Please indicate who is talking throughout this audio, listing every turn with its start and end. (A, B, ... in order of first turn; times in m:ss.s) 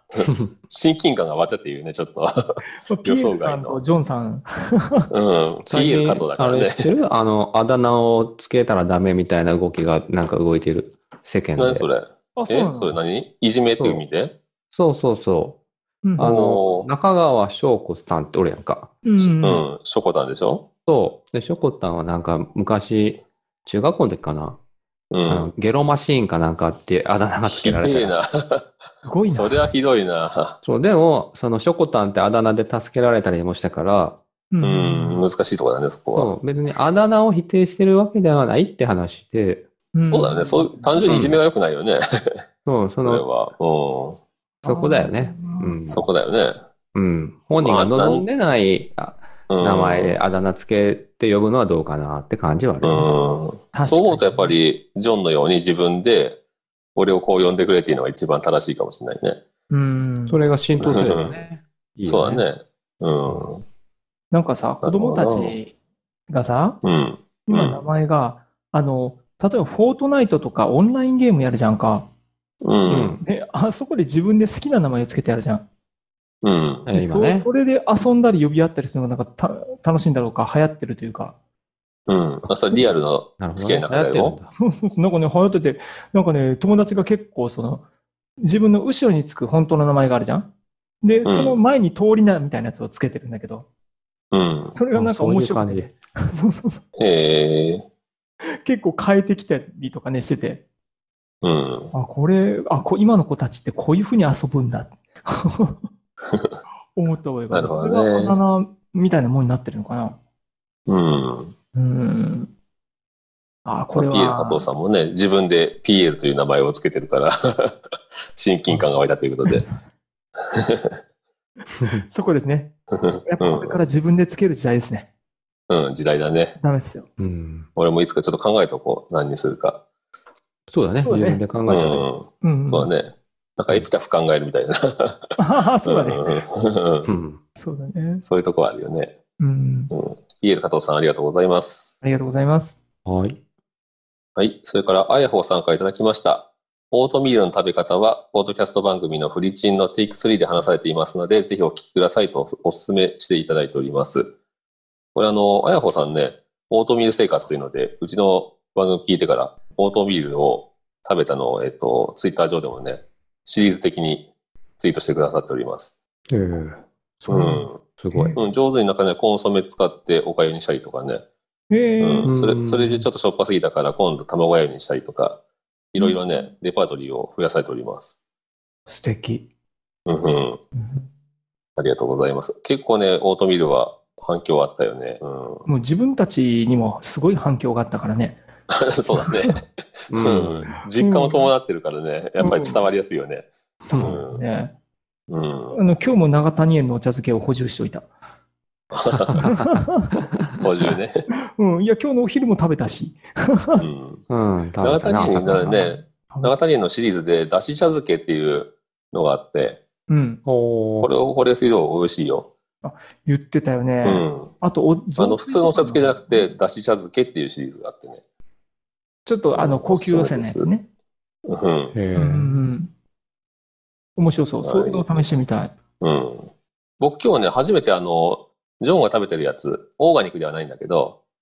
0:00.1-0:03.8 A
0:02.8-0:05.0 B
0:05.1-0:06.9 A
0:05.6-0:11.8 C
0:11.6-0:14.3 A
0:12.4-0:13.0 B
0:14.7-0:15.6 C
0:16.0-0:16.3 B
0:16.2-0:18.9 C
0:16.2-0:16.9 A
0:19.0-0:19.6 B
0:19.4-0:20.6 A
0:20.8-0:24.6 C
0:25.1-0:25.5 A
0:25.3-0:28.2 C
0:27.4-0:28.7 A
0:29.0-0:29.7 B
0:29.3-0:30.6 A
0:30.6-0:34.2 C
0:34.5-0:35.2 B
0:34.6-0:36.3 A
0:36.1-0:39.6 C
0:39.9-0:41.0 B
0:40.1-0:42.4 A
0:41.1-0:41.4 C
0:42.6-0:43.2 C
0:43.0-0:44.2 A
0:44.6-0:45.8 B
0:44.6-0:46.0 C
0:45.9-0:46.6 A
0:46.9-0:53.1 C
0:47.6-0:48.2 A
0:49.5-0:50.2 A
0:52.8-0:56.4 A
0:53.7-0:54.6 B
0:56.9-0:59.4 A
0:59.7-1:00.4 B
1:00.3-1:02.4 C
1:00.8-1:01.4 A
1:02.0-1:03.6 A
1:04.3-1:05.7 B
1:04.8-1:05.6 A
1:06.3-1:06.8 B
1:06.8-1:07.8 A
1:07.5-1:12.0 B
1:12.6-1:13.1 A
1:12.9-1:13.2 C
1:12.9-1:15.6 B
1:16.4-1:16.9 A
1:16.8-1:17.5 C
1:16.9-1:21.3 B
1:22.1-1:24.4 A
1:23.4-1:24.5 C
1:24.5-1:27.8 B
1:28.4-1:30.5 B
1:31.0-1:33.6 B
1:31.2-1:31.6 A
1:34.3-1:34.8 A
1:34.7-1:36.8 B
1:34.9-1:35.9 C
1:37.0-1:37.8 A
1:38.5-1:40.6 B
1:41.4-1:41.9 A
1:41.9-1:45.8 B
1:46.3-1:46.6 A
1:46.9-1:50.2 B
1:47.5-1:48.4 A
1:50.9-1:51.5 A
1:51.7-1:52.5 B
1:53.6-1:54.7 B
1:53.9-1:57.8 A
1:58.3-1:59.6 A
1:59.5-1:59.7 B
2:00.5-2:00.9 A
2:01.8-2:02.7 B
2:02.9-2:03.8 A
2:03.2-2:05.0 B
2:05.7-2:06.6 A
2:06.6-2:07.1 B
2:07.2-2:07.7 C
2:07.8-2:09.8 A
2:10.7-2:12.0 C
2:11.0-2:11.4 B
2:11.7-2:15.3 A
2:12.4-2:12.9 B
2:15.4-2:16.2 B
2:15.8-2:17.1 A
2:17.0-2:17.4 C
2:17.6-2:18.2 B
2:18.2-2:19.1 A
2:19.4-2:19.9 B
2:19.9-2:21.9 A
2:22.0-2:22.8 B
2:23.0-2:23.4 C
2:24.4-2:34.3 A
2:35.1-2:44.2 A
2:44.8-2:45.9 A
2:46.3-2:48.3 C
2:47.3-2:47.7 A
2:47.4-2:47.6 B
2:48.1-2:48.4 B
2:48.3-2:51.2 A
2:51.7-2:52.3 B
2:52.0-2:55.4 A
2:52.3-2:53.0 C
2:55.9-2:58.1 A
2:56.0-2:56.4 B
2:58.9-2:59.4 B
3:00.1-3:00.6 A
3:00.8-3:01.1 B
3:01.8-3:05.6 A
3:05.6-3:08.4 B
3:08.7-3:14.4 A
3:09.2-3:09.5 B
3:10.1-3:10.7 C
3:10.9-3:11.5 B
3:12.4-3:12.8 B
3:13.8-3:14.7 B
3:15.3-3:15.8 A
3:15.7-3:18.0 B
3:18.9-3:19.4 A
3:19.4-3:20.1 B
3:20.6-3:21.2 A
3:21.5-3:23.8 B
3:23.8-3:24.2 A
3:24.3-3:25.7 C
3:24.8-3:29.8 A
3:25.6-3:26.5 B
3:30.1-3:30.4 B
3:30.4-3:31.1 C
3:31.0-3:32.5 A
3:32.8-3:36.5 B
3:34.0-3:34.5 A
3:35.2-3:38.2 A
3:39.2-3:40.8 B
3:39.5-3:40.7 A
3:41.5-3:41.9 A
3:41.9-3:42.5 C
3:42.2-3:42.9 B
3:44.2-3:45.7 B
3:44.6-3:45.2 A
3:46.0-3:51.2 A